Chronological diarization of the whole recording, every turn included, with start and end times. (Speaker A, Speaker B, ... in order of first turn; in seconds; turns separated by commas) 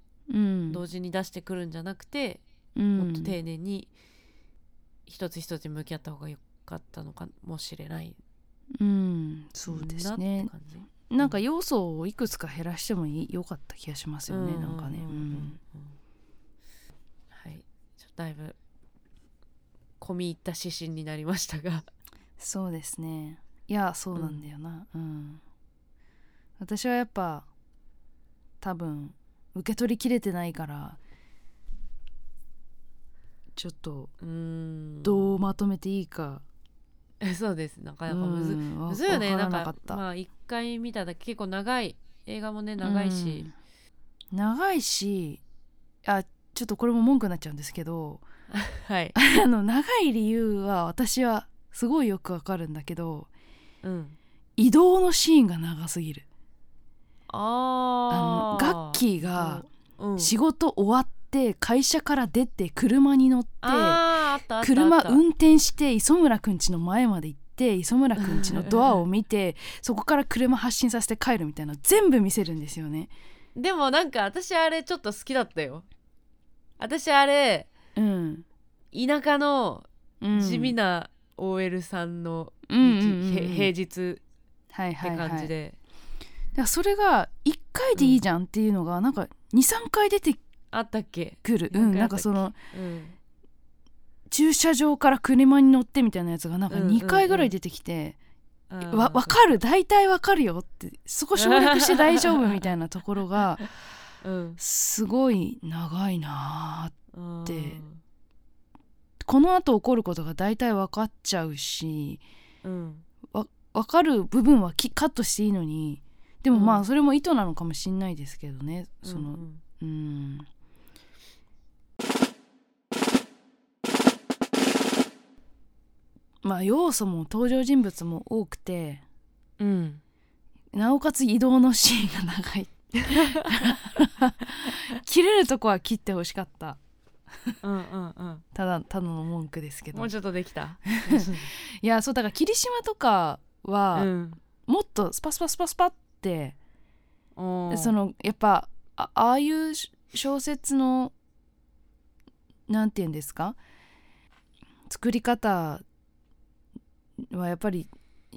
Speaker A: 0.3-0.8, Speaker B: 0.7-2.4, Speaker A: 2.8-3.4, Speaker B: 2.9-3.9, Speaker B: 5.0-8.2, Speaker A: 8.8-10.5, Speaker B: 9.7-11.4, Speaker A: 11.1-15.6, Speaker B: 14.3-16.0, Speaker B: 17.3-18.6, Speaker B: 20.0-21.9, Speaker A: 22.4-25.4, Speaker B: 24.1-24.4, Speaker A: 26.6-27.5, Speaker A: 28.6-31.0, Speaker A: 33.5-34.1, Speaker B: 34.2-35.4, Speaker A: 35.0-36.4, Speaker B: 37.2-43.5, Speaker A: 38.1-40.0, Speaker A: 42.8-43.5, Speaker A: 44.3-45.4, Speaker A: 46.0-48.2, Speaker B: 48.5-49.1, Speaker A: 49.1-53.3, Speaker B: 53.8-54.1, Speaker A: 54.6-56.2, Speaker B: 57.3-60.3, Speaker A: 58.1-59.6, Speaker A: 60.2-64.0, Speaker B: 63.6-65.2, Speaker A: 64.6-73.1, Speaker B: 68.2-69.0, Speaker B: 73.5-75.8, Speaker B: 76.8-77.7, Speaker A: 78.0-78.4, Speaker B: 78.9-84.2, Speaker A: 80.2-80.8, Speaker A: 82.7-83.7, Speaker A: 84.7-85.5, Speaker B: 85.0-85.8, Speaker A: 86.5-90.4, Speaker B: 88.0-88.2, Speaker B: 90.7-93.2, Speaker A: 91.4-92.5, Speaker A: 94.3-98.2, Speaker B: 96.7-97.5, Speaker B: 98.7-99.4, Speaker A: 98.8-103.7, Speaker B: 101.3-102.7, Speaker B: 104.2-104.6, Speaker A: 104.6-106.9, Speaker B: 107.1-108.0, Speaker A: 107.5-107.8, Speaker A: 109.2-112.2, Speaker B: 112.6-113.0, Speaker A: 113.3-120.5, Speaker B: 116.5-116.8, Speaker B: 119.0-119.6, Speaker A: 126.4-129.0, Speaker B: 129.6-130.0, Speaker A: 130.7-136.8, Speaker B: 133.0-133.8, Speaker B: 137.6-138.4, Speaker A: 138.5-140.1, Speaker B: 139.9-141.5, Speaker A: 140.9-144.1, Speaker B: 143.9-144.4, Speaker A: 144.6-146.6, Speaker B: 147.3-147.9, Speaker A: 147.7-151.1, Speaker A: 152.7-153.6, Speaker A: 154.9-155.8, Speaker A: 157.2-157.9